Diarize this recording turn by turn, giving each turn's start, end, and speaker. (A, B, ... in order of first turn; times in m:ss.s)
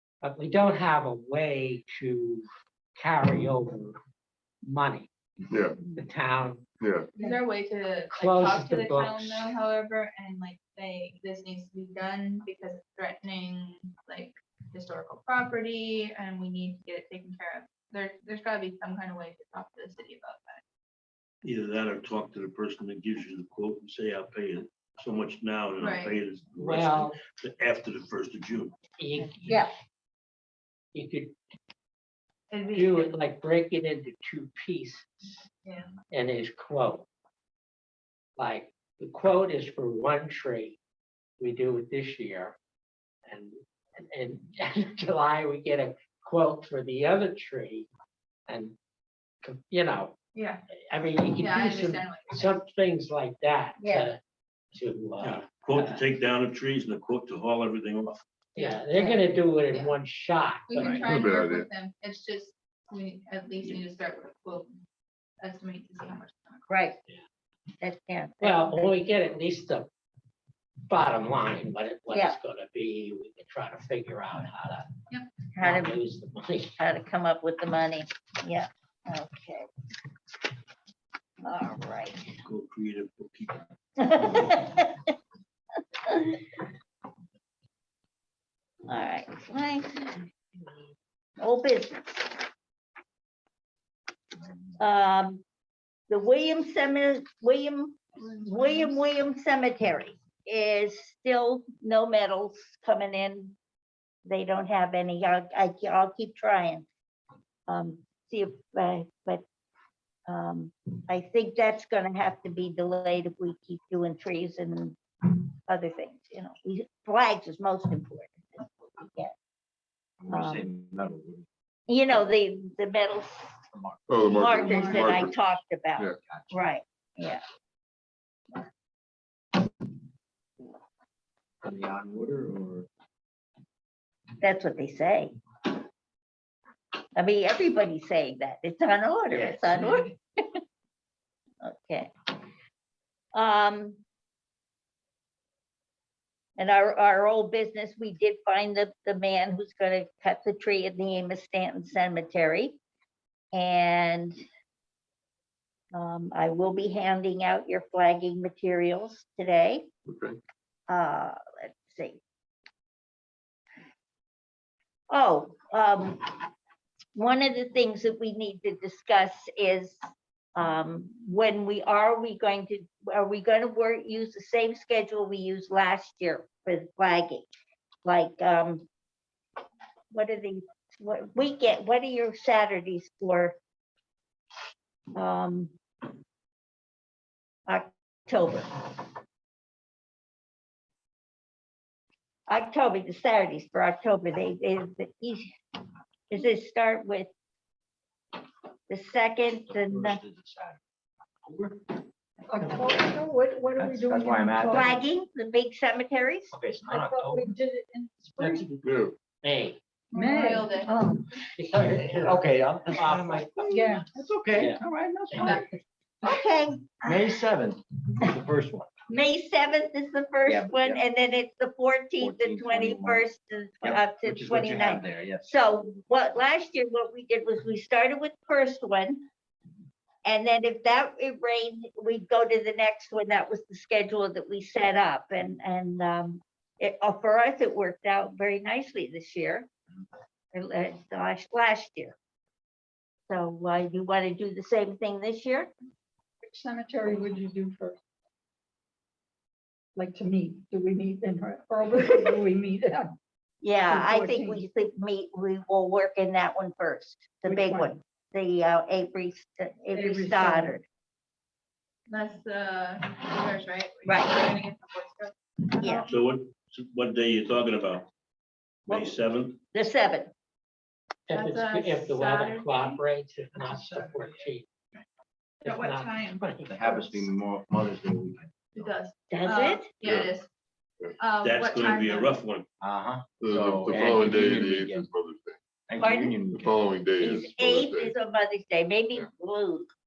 0:00.2-0:02.4 A
0:03.0-0:04.0 A
0:04.6-0:05.1 A
0:05.5-0:05.8 B
0:05.9-0:06.6 A
0:06.8-0:07.1 B
0:07.1-0:20.6 C
0:08.2-0:09.4 A
0:21.4-0:28.8 D
0:25.8-0:26.2 C
0:26.6-0:27.2 A
0:29.0-0:29.7 A
0:29.2-0:29.7 E
0:30.9-0:31.3 A
0:32.5-0:33.1 C
0:32.7-0:35.4 A
0:35.6-0:35.9 C
0:36.1-0:37.1 A
0:38.4-0:40.8 A
0:41.4-0:42.6 A
0:43.3-0:47.9 A
0:48.5-0:48.7 A
0:49.4-0:50.2 A
0:50.3-0:50.6 C
0:50.9-0:54.2 A
0:51.4-0:52.5 C
0:53.8-0:54.1 E
0:54.7-0:56.0 A
0:55.2-0:58.2 D
0:58.6-1:01.1 A
0:58.6-0:58.8 C
0:59.0-0:59.2 E
0:59.6-0:59.9 C
1:00.7-1:04.7 C
1:01.0-1:01.7 B
1:05.4-1:06.6 C
1:06.7-1:07.0 E
1:07.8-1:08.8 E
1:08.4-1:09.9 A
1:10.8-1:14.9 A
1:12.1-1:12.4 E
1:15.5-1:15.9 E
1:15.6-1:16.7 A
1:16.8-1:19.7 E
1:21.4-1:22.3 E
1:22.4-1:23.6 D
1:24.0-1:25.1 E
1:24.3-1:24.6 D
1:26.0-1:26.5 E
1:28.9-1:30.2 E
1:31.4-1:32.4 E
1:34.8-1:35.4 E
1:36.1-1:43.6 E
1:38.5-1:38.8 C
1:44.2-1:46.8 E
1:47.7-1:49.4 E
1:50.3-1:59.3 E
2:00.2-2:01.4 F
2:00.3-2:00.7 E
2:01.9-2:03.6 E
2:03.7-2:05.3 F
2:04.1-2:05.4 B
2:04.3-2:07.4 E
2:04.6-2:05.0 C
2:06.2-2:06.6 F
2:11.6-2:12.9 F
2:14.4-2:15.3 E
2:17.1-2:20.6 E
2:19.3-2:20.1 F
2:21.6-2:22.1 E
2:23.3-2:24.0 E
2:26.6-2:32.8 E
2:33.5-2:34.4 E
2:35.9-2:39.9 E
2:40.1-2:40.4 B
2:40.9-2:42.2 E
2:45.1-2:46.5 E
2:47.1-2:50.0 E
2:50.6-2:57.5 E
2:58.0-2:58.8 E
3:00.1-3:03.6 E
3:05.1-3:05.7 E
3:07.7-3:09.0 E
3:12.5-3:15.5 E
3:16.3-3:17.3 E
3:18.9-3:20.2 E
3:19.7-3:20.8 F
3:21.4-3:21.8 F
3:22.5-3:25.0 G
3:22.6-3:23.0 F
3:23.8-3:24.9 F
3:24.7-3:26.5 E
3:26.5-3:27.4 F
3:26.9-3:28.8 G
3:28.4-3:28.7 A
3:28.8-3:29.1 B
3:29.4-3:29.8 A
3:30.1-3:30.8 G
3:30.1-3:30.9 C
3:30.8-3:31.3 E
3:31.6-3:33.9 A
3:32.1-3:33.5 F
3:33.6-3:34.2 G
3:34.1-3:35.6 F
3:34.6-3:34.8 A
3:35.3-3:35.6 A
3:36.2-3:37.4 E
3:37.0-3:39.0 F
3:39.1-3:49.2 E
3:40.4-3:41.0 F
3:42.2-3:43.2 F
3:43.8-3:45.6 F
3:50.2-3:59.7 E
4:00.5-4:02.2 E
4:03.3-4:05.7 E
4:06.4-4:08.0 G
4:10.0-4:13.1 G
4:13.6-4:20.8 E
4:13.9-4:14.7 G
4:17.4-4:17.9 G
4:19.9-4:20.8 G
4:22.1-4:26.2 C
4:24.0-4:24.5 E
4:25.8-4:26.1 E
4:26.1-4:28.1 D
4:28.9-4:29.1 E
4:28.9-4:29.6 D
4:29.7-4:30.3 E
4:31.3-4:34.7 A
4:31.3-4:33.0 C
4:33.5-4:34.5 F
4:35.6-4:36.4 C
4:35.6-4:37.2 A
4:36.6-4:39.0 F
4:38.7-4:40.5 C
4:39.3-4:39.9 E
4:40.0-4:40.3 B
4:41.2-4:42.4 C
4:41.4-4:42.6 D
4:42.8-4:45.1 F
4:43.4-4:45.6 B
4:45.8-4:46.9 F
4:46.0-4:46.4 E
4:46.5-4:48.1 B
4:47.1-4:49.9 E